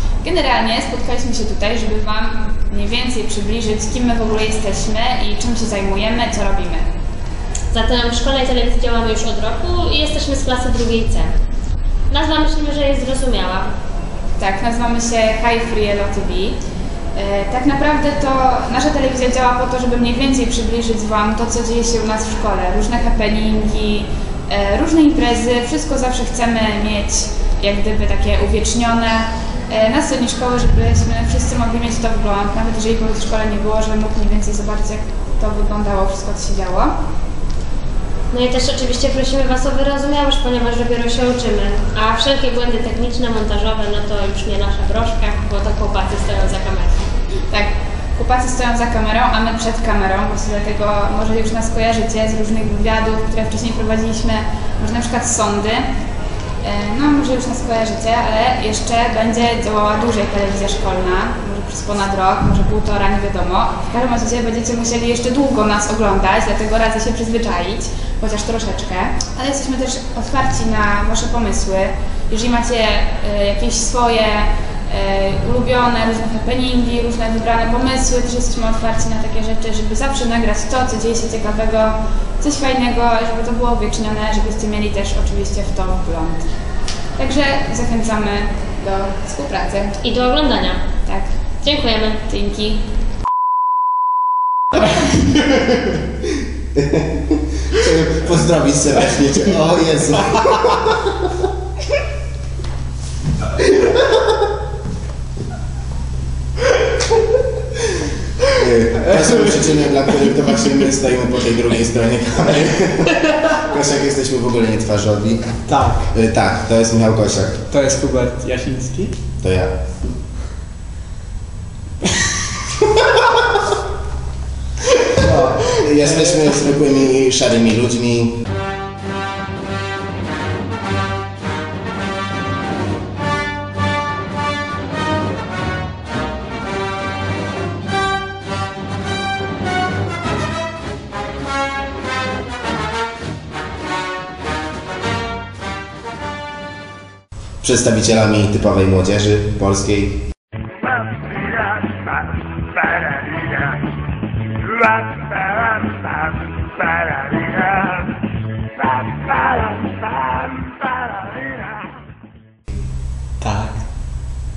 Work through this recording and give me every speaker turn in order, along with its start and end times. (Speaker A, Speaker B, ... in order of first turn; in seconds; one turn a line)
Speaker A: 0.2-6.8
Speaker B: 7.7-11.3
Speaker B: 12.1-13.7
Speaker A: 14.4-16.6
Speaker A: 17.1-36.9
Speaker B: 38.3-47.1
Speaker A: 47.5-55.9
Speaker A: 56.6-86.5
Speaker A: 87.2-90.0
Speaker B: 90.0-90.8
Speaker B: 91.6-92.2
Speaker A: 92.3-92.8
Speaker C: 96.7-101.0
Speaker C: 108.5-117.6
Speaker D: 115.7-116.1
Speaker D: 117.7-119.2
Speaker C: 119.4-119.7
Speaker D: 125.2-126.3
Speaker C: 125.2-128.4
Speaker C: 147.6-150.2
Speaker D: 163.4-163.8